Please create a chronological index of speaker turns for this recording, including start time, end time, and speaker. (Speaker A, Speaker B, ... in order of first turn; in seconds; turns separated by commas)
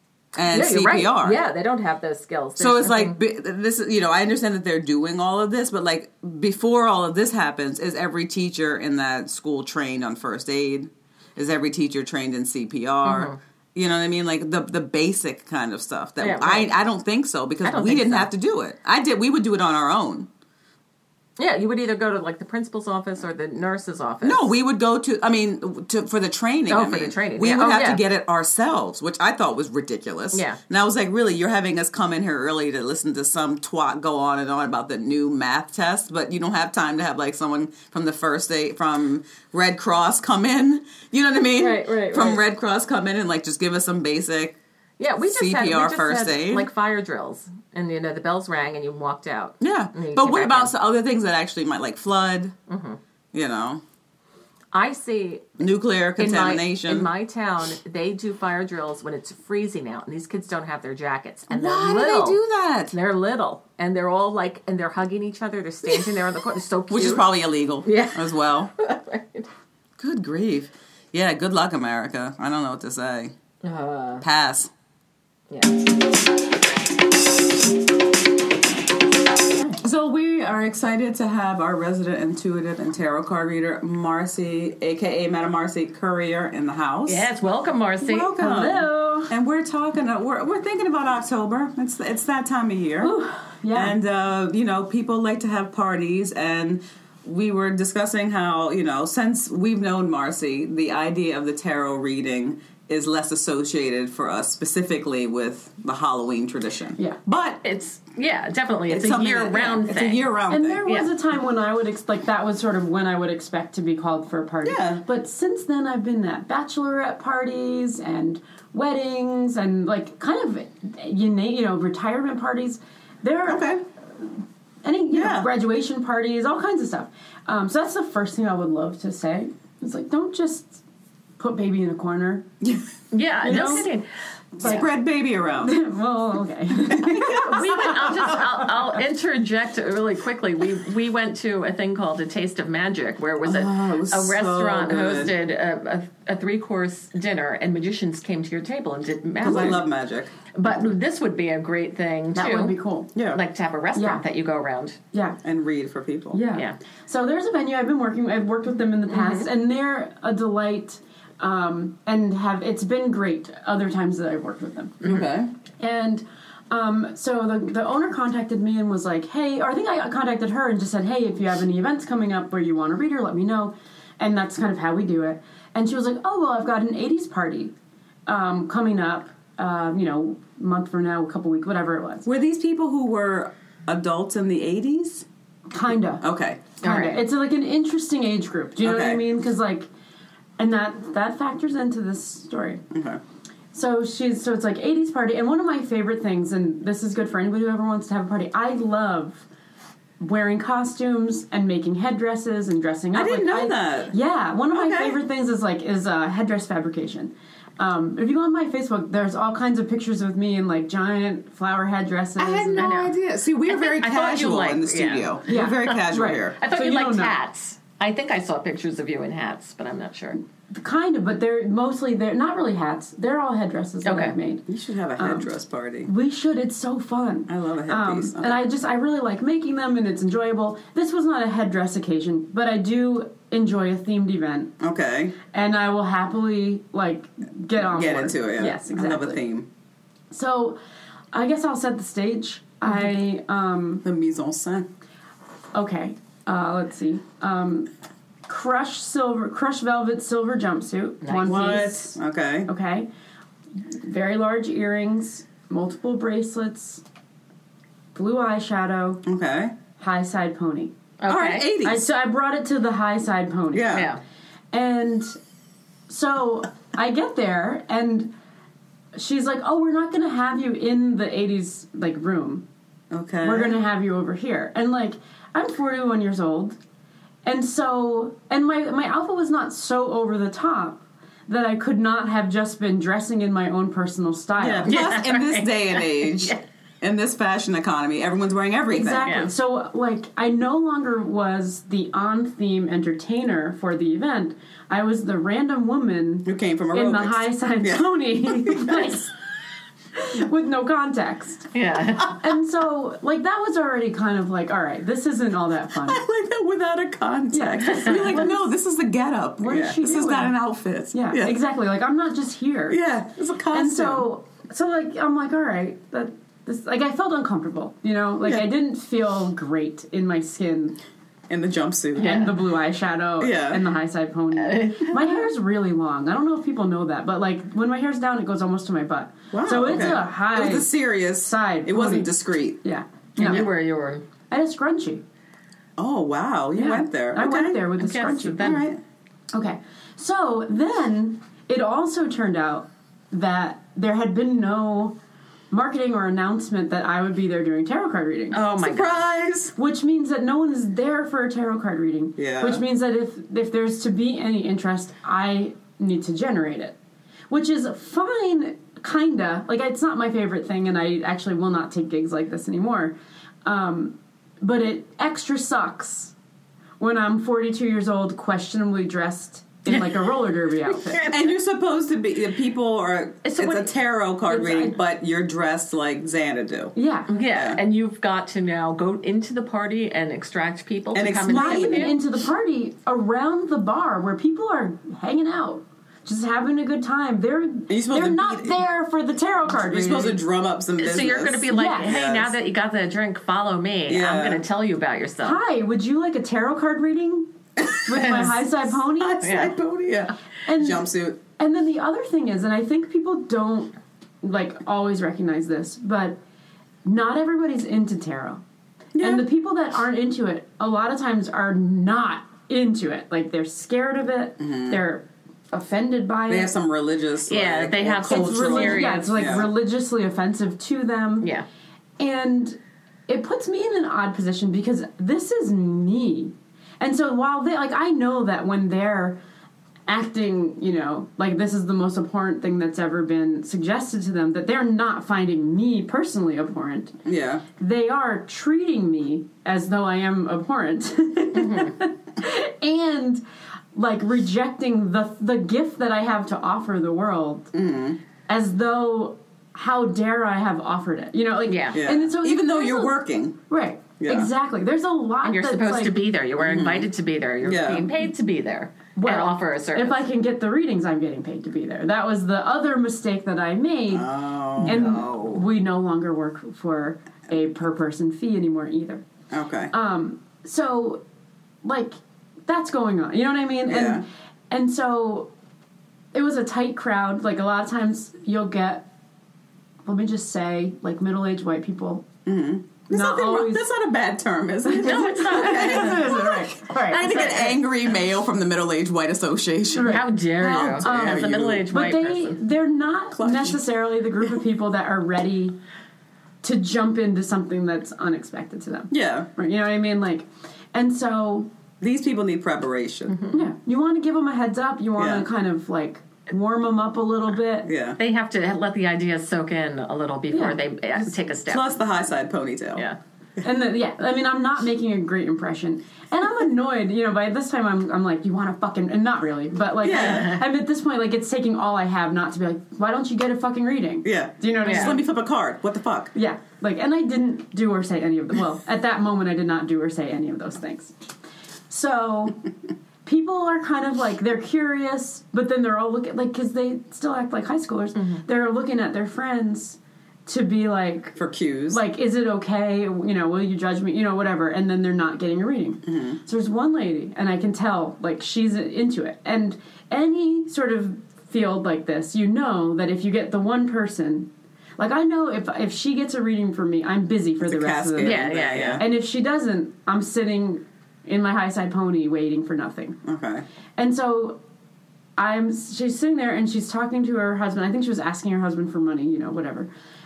Speaker A: 0.3-1.4, Speaker B: 0.5-3.2, Speaker A: 2.6-20.3, Speaker B: 13.0-13.4, Speaker B: 16.2-16.7, Speaker B: 17.6-18.3, Speaker B: 21.4-24.5, Speaker A: 24.2-44.6, Speaker B: 26.7-28.0, Speaker B: 30.3-30.6, Speaker B: 41.6-42.4, Speaker B: 45.0-50.7, Speaker A: 45.2-46.7, Speaker A: 49.6-52.6, Speaker B: 52.7-53.0, Speaker A: 53.3-53.8, Speaker B: 54.7-55.6, Speaker A: 55.6-57.1, Speaker B: 56.2-62.4, Speaker A: 61.5-62.9, Speaker B: 62.9-67.3, Speaker A: 65.8-66.1, Speaker A: 66.9-68.7, Speaker B: 67.8-69.5, Speaker A: 70.0-73.3, Speaker B: 73.6-74.2, Speaker A: 74.2-74.7, Speaker B: 75.5-75.8, Speaker A: 79.8-87.3, Speaker B: 87.1-88.9, Speaker A: 88.0-93.1, Speaker C: 88.5-89.3, Speaker C: 93.0-93.9, Speaker A: 93.7-107.6, Speaker B: 107.6-110.3, Speaker A: 108.9-110.9, Speaker C: 110.5-123.7, Speaker A: 114.6-115.0, Speaker A: 123.5-123.8, Speaker C: 124.8-130.8, Speaker A: 125.1-125.5, Speaker C: 131.4-132.5, Speaker B: 133.1-134.1, Speaker C: 133.4-133.9, Speaker A: 133.4-133.9, Speaker A: 134.6-135.7, Speaker C: 135.6-138.5, Speaker A: 136.9-138.4, Speaker B: 137.3-149.8, Speaker A: 143.4-145.3, Speaker A: 149.4-150.3, Speaker B: 150.5-152.8, Speaker C: 152.3-153.1, Speaker A: 153.1-153.4, Speaker B: 153.3-155.0, Speaker C: 153.9-154.2, Speaker C: 155.1-155.4, Speaker A: 155.4-156.4, Speaker C: 156.3-165.0, Speaker B: 159.1-159.5, Speaker A: 165.0-165.5, Speaker C: 165.8-177.7, Speaker C: 178.2-182.3, Speaker A: 182.2-185.2, Speaker C: 185.7-186.2, Speaker A: 186.2-186.8, Speaker B: 186.8-187.2, Speaker C: 186.8-189.9, Speaker A: 188.8-189.2, Speaker C: 190.6-192.8, Speaker A: 192.9-193.2, Speaker C: 193.7-199.5, Speaker C: 200.2-212.9, Speaker A: 203.1-204.1, Speaker A: 204.7-205.2, Speaker A: 212.4-216.6, Speaker B: 212.8-213.1, Speaker B: 213.6-216.0, Speaker C: 215.5-217.4, Speaker B: 216.6-220.4, Speaker C: 220.7-224.7, Speaker B: 224.0-224.3, Speaker A: 224.7-226.1, Speaker C: 225.2-225.5, Speaker C: 226.0-234.7, Speaker A: 227.5-228.6, Speaker A: 234.8-235.3, Speaker C: 235.4-239.4, Speaker A: 237.8-239.7, Speaker C: 240.3-240.8, Speaker C: 241.3-244.0, Speaker A: 244.0-244.9, Speaker C: 245.7-247.9, Speaker C: 248.5-253.1, Speaker B: 251.2-251.8, Speaker A: 251.4-252.7, Speaker C: 253.8-257.0, Speaker C: 258.1-259.2, Speaker A: 259.2-259.8, Speaker C: 259.9-260.9, Speaker B: 261.2-261.7, Speaker A: 261.3-262.1, Speaker C: 261.8-264.0, Speaker A: 263.7-264.1, Speaker B: 263.9-264.2, Speaker C: 264.7-265.4, Speaker C: 266.1-268.3, Speaker C: 269.1-272.6, Speaker A: 273.1-273.8, Speaker C: 273.4-276.8, Speaker C: 277.4-285.0, Speaker A: 284.6-289.3, Speaker B: 284.9-286.6, Speaker C: 288.9-299.3, Speaker B: 289.2-289.5, Speaker A: 296.4-299.1, Speaker C: 300.1-301.7, Speaker B: 301.7-302.4, Speaker C: 302.3-306.2, Speaker A: 306.0-311.6, Speaker C: 307.5-308.6, Speaker B: 307.9-308.2, Speaker C: 309.6-310.5, Speaker C: 311.1-313.0, Speaker A: 312.9-314.3, Speaker C: 313.7-321.0, Speaker A: 321.5-322.4, Speaker B: 322.2-322.6, Speaker C: 322.2-333.7, Speaker A: 323.4-323.8, Speaker B: 324.5-325.4, Speaker A: 329.5-332.8, Speaker B: 333.4-334.2, Speaker C: 334.5-335.2, Speaker A: 336.0-337.8, Speaker C: 336.8-338.8, Speaker B: 338.0-338.8, Speaker A: 338.6-339.0, Speaker C: 339.5-345.1, Speaker C: 345.7-348.7, Speaker B: 348.5-349.2, Speaker A: 348.6-349.8, Speaker C: 349.8-356.9, Speaker A: 352.4-352.8, Speaker C: 357.5-366.3, Speaker C: 367.0-371.3, Speaker B: 371.0-371.4, Speaker A: 371.2-376.9, Speaker C: 374.5-375.0, Speaker C: 376.9-377.3, Speaker B: 377.3-382.2, Speaker A: 377.5-377.8, Speaker A: 381.1-382.1, Speaker C: 381.5-390.4, Speaker A: 387.9-388.8, Speaker A: 389.7-392.5, Speaker B: 391.0-395.6, Speaker C: 391.7-392.1, Speaker A: 394.1-394.6, Speaker C: 395.4-397.5, Speaker A: 397.8-398.5, Speaker C: 398.0-399.7, Speaker B: 398.1-398.6, Speaker A: 399.1-401.4, Speaker B: 399.4-399.7, Speaker C: 400.6-406.4, Speaker C: 407.0-408.6, Speaker A: 409.1-409.4, Speaker C: 409.2-416.7, Speaker A: 414.6-415.0, Speaker A: 416.5-419.7, Speaker B: 417.5-419.5, Speaker C: 418.2-421.5, Speaker B: 421.4-421.6, Speaker C: 422.2-429.4, Speaker C: 430.1-437.2, Speaker A: 437.2-437.6, Speaker C: 437.7-443.4, Speaker B: 441.6-441.9, Speaker C: 443.9-447.7, Speaker A: 447.7-448.2, Speaker C: 448.5-456.2, Speaker B: 451.6-452.0, Speaker A: 451.9-453.6, Speaker A: 454.2-454.5, Speaker B: 455.4-460.2, Speaker A: 456.6-457.1, Speaker A: 457.6-458.1, Speaker C: 459.1-469.2, Speaker A: 464.1-465.6, Speaker A: 469.5-469.9, Speaker C: 469.9-471.2, Speaker C: 471.8-475.5, Speaker A: 473.9-474.2, Speaker C: 476.3-479.1, Speaker C: 480.1-482.3, Speaker A: 482.4-491.9, Speaker C: 483.1-483.9, Speaker C: 484.9-487.6, Speaker B: 484.9-486.4, Speaker B: 487.1-487.8, Speaker C: 489.9-495.8, Speaker B: 490.0-492.6, Speaker A: 493.3-493.8, Speaker C: 496.6-501.7, Speaker A: 499.1-499.5, Speaker A: 502.0-503.4, Speaker B: 503.3-503.6, Speaker C: 503.5-507.9, Speaker A: 505.1-505.5, Speaker A: 507.9-508.2, Speaker B: 508.2-511.9, Speaker C: 510.5-510.8, Speaker A: 511.6-513.0, Speaker C: 513.6-525.2, Speaker A: 520.0-520.6, Speaker B: 520.1-520.6, Speaker A: 524.2-526.3, Speaker B: 524.8-525.1, Speaker C: 526.4-531.1, Speaker C: 531.9-532.7, Speaker C: 533.2-541.4, Speaker B: 538.1-538.4, Speaker A: 541.4-542.0, Speaker C: 541.9-563.2, Speaker A: 546.1-546.4, Speaker A: 557.6-559.1, Speaker B: 558.2-559.0, Speaker A: 563.2-563.6, Speaker C: 564.0-564.6, Speaker C: 565.4-569.9